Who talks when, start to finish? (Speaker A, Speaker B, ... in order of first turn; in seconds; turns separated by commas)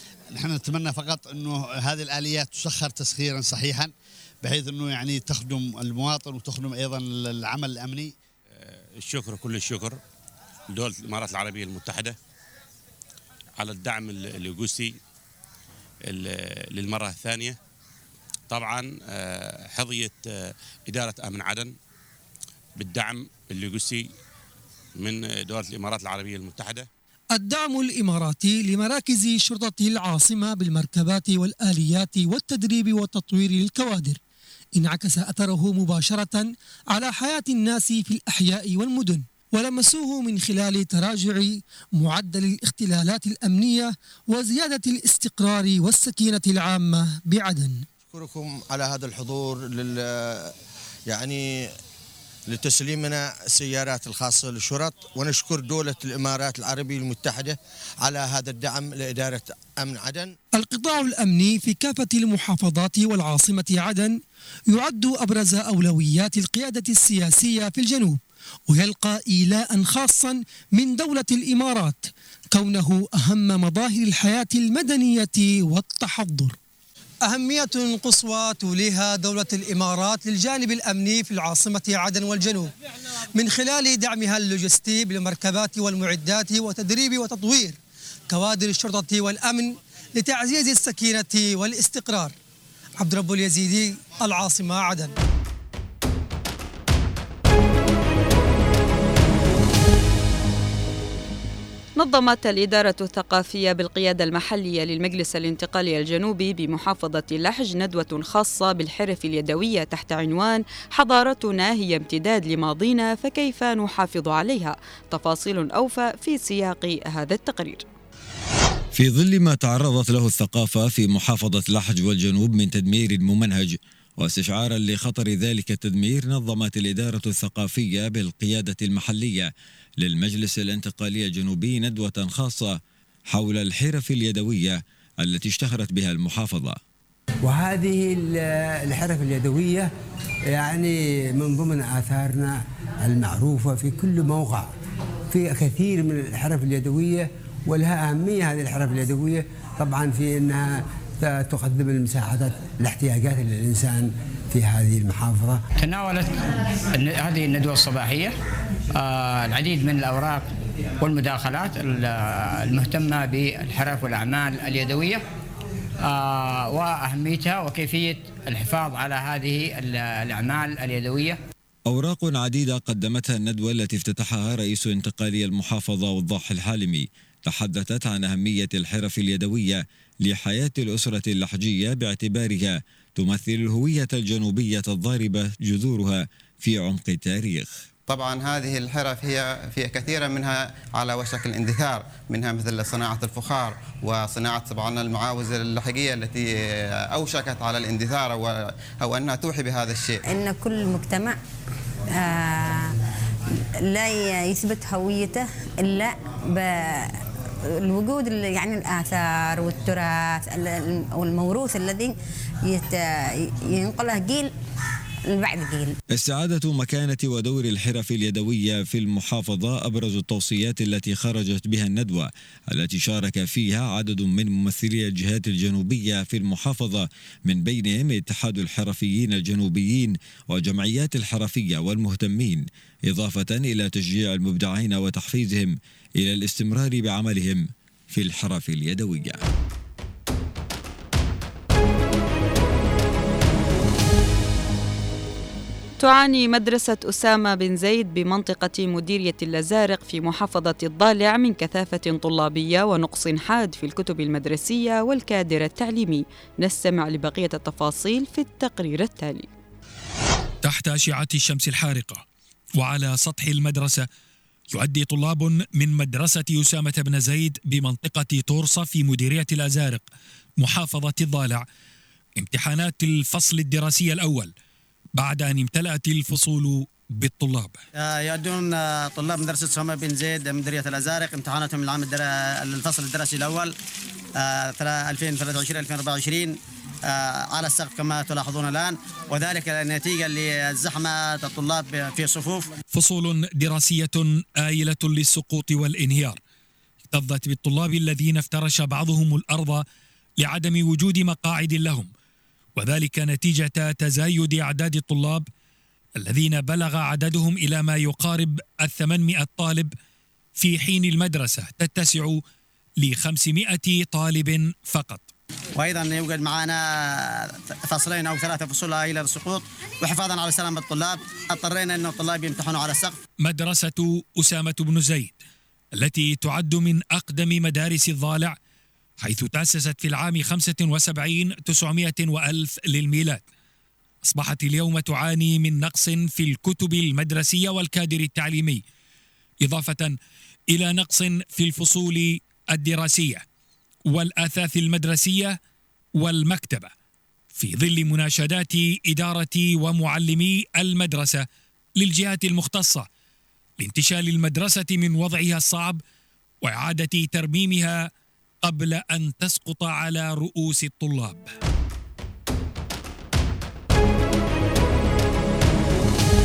Speaker A: 0.3-3.9, Speaker A: 4.4-8.1, Speaker B: 8.5-10.0, Speaker B: 10.7-12.2, Speaker B: 13.6-15.0, Speaker B: 16.0-17.6, Speaker B: 18.5-21.7, Speaker B: 22.8-24.1, Speaker B: 24.9-26.9, Speaker C: 27.3-34.2, Speaker C: 34.8-47.8, Speaker D: 48.1-50.5, Speaker D: 51.1-51.7, Speaker D: 52.5-60.3, Speaker C: 60.5-64.2, Speaker C: 64.7-76.5, Speaker C: 77.2-82.7, Speaker C: 83.3-87.8, Speaker C: 88.3-92.3, Speaker C: 93.0-95.1, Speaker E: 102.0-117.8, Speaker F: 118.9-136.8, Speaker G: 137.4-139.9, Speaker G: 140.5-144.7, Speaker G: 145.3-155.6, Speaker H: 155.8-158.3, Speaker H: 158.9-165.2, Speaker H: 166.0-171.4, Speaker F: 171.9-187.7, Speaker I: 188.1-196.5, Speaker I: 197.1-200.2, Speaker J: 200.2-201.4, Speaker J: 202.1-202.9, Speaker J: 203.5-207.2, Speaker J: 207.7-212.1, Speaker J: 212.7-214.5, Speaker J: 215.3-215.9, Speaker F: 216.1-239.4, Speaker E: 246.0-259.5, Speaker K: 260.6-262.2, Speaker K: 262.8-264.1, Speaker K: 264.7-270.1, Speaker K: 270.6-271.6, Speaker K: 272.4-274.5, Speaker K: 275.2-277.8, Speaker L: 277.9-283.7, Speaker L: 284.4-292.7, Speaker K: 292.9-296.4, Speaker K: 297.1-299.8, Speaker K: 300.4-302.1, Speaker K: 302.8-305.5, Speaker K: 306.2-309.9, Speaker K: 310.6-312.4, Speaker K: 313.0-315.3, Speaker L: 315.8-323.2, Speaker K: 323.4-325.4, Speaker K: 325.9-328.6, Speaker K: 329.2-333.4, Speaker K: 334.2-338.8, Speaker K: 339.6-340.1, Speaker K: 340.7-343.4, Speaker K: 344.1-345.6, Speaker K: 346.2-346.9, Speaker K: 347.5-351.4, Speaker K: 352.0-353.1, Speaker K: 353.8-356.0, Speaker K: 356.6-358.1, Speaker K: 358.6-361.5